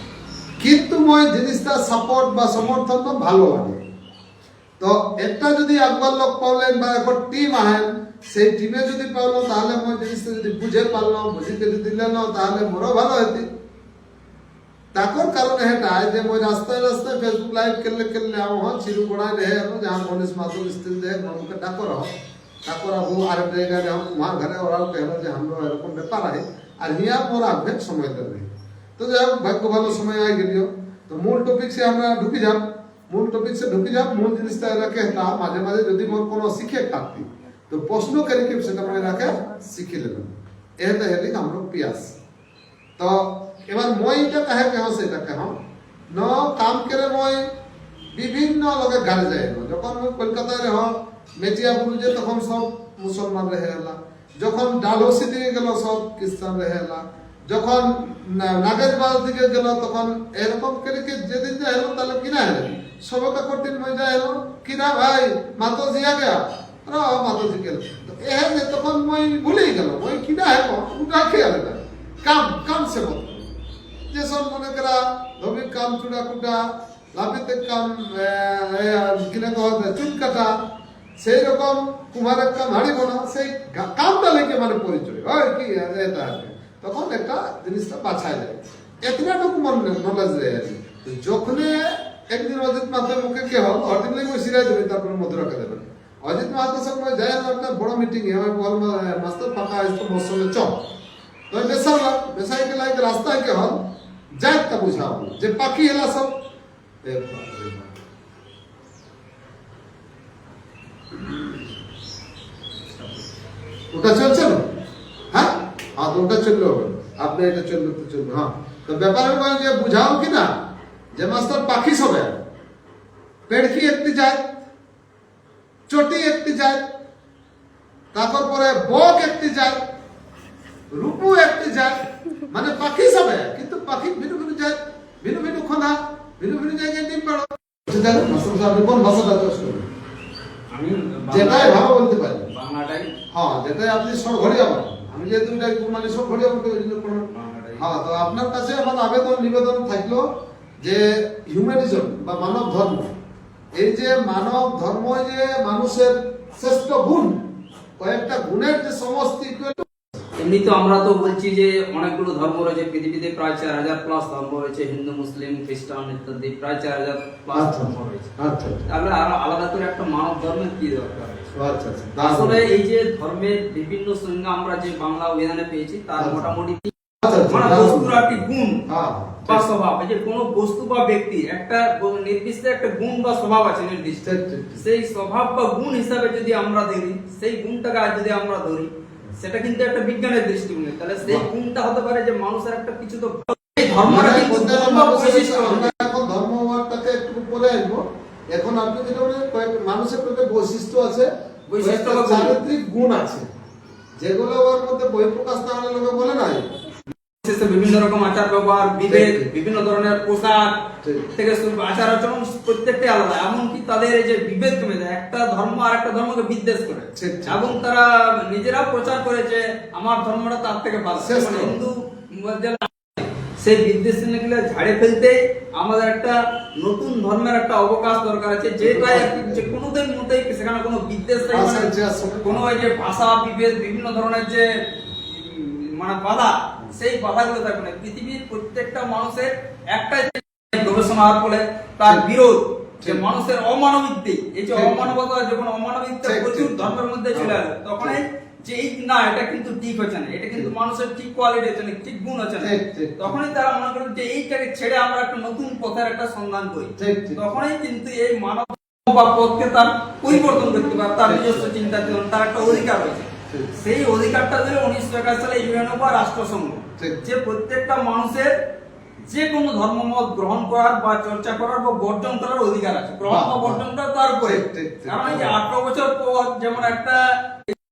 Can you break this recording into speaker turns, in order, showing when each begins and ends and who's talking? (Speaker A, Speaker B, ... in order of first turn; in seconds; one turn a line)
Speaker A: 0.6-3.8
Speaker A: 4.8-13.5
Speaker A: 14.9-22.1
Speaker A: 22.6-42.2
Speaker A: 43.0-45.5
Speaker A: 46.1-47.5
Speaker A: 48.1-73.5
Speaker A: 74.1-80.5
Speaker A: 81.2-100.8
Speaker A: 101.5-103.8
Speaker A: 104.4-106.3
Speaker A: 107.0-108.0
Speaker A: 113.9-114.6
Speaker A: 115.3-120.5
Speaker A: 121.1-122.4
Speaker A: 123.5-124.5
Speaker A: 125.9-126.9
Speaker A: 128.1-129.8
Speaker A: 130.9-139.8
Speaker B: 140.7-141.8
Speaker A: 141.3-142.5
Speaker B: 142.5-143.1
Speaker A: 143.3-150.2
Speaker B: 147.3-147.9
Speaker A: 150.8-153.1
Speaker A: 153.8-157.4
Speaker A: 158.0-160.1
Speaker B: 160.4-168.3
Speaker A: 167.5-168.8
Speaker B: 168.9-171.5
Speaker A: 171.5-172.7
Speaker B: 172.2-176.9
Speaker A: 176.2-176.5
Speaker A: 177.2-178.2
Speaker B: 177.5-178.8
Speaker A: 178.9-179.7
Speaker B: 179.5-196.1
Speaker A: 184.2-184.8
Speaker A: 194.1-203.5
Speaker B: 201.7-202.6
Speaker A: 204.2-206.7
Speaker B: 207.4-210.8
Speaker A: 209.1-209.5
Speaker A: 211.0-211.3
Speaker B: 211.3-268.5
Speaker A: 217.2-217.8
Speaker A: 221.2-221.8
Speaker A: 228.8-229.7
Speaker A: 231.5-232.7
Speaker A: 244.7-245.1
Speaker A: 246.2-248.2
Speaker A: 252.6-253.3
Speaker A: 257.0-257.5
Speaker A: 260.3-262.9
Speaker A: 263.5-263.8
Speaker A: 267.0-267.3
Speaker B: 269.2-277.7
Speaker A: 273.2-273.8
Speaker A: 274.4-275.6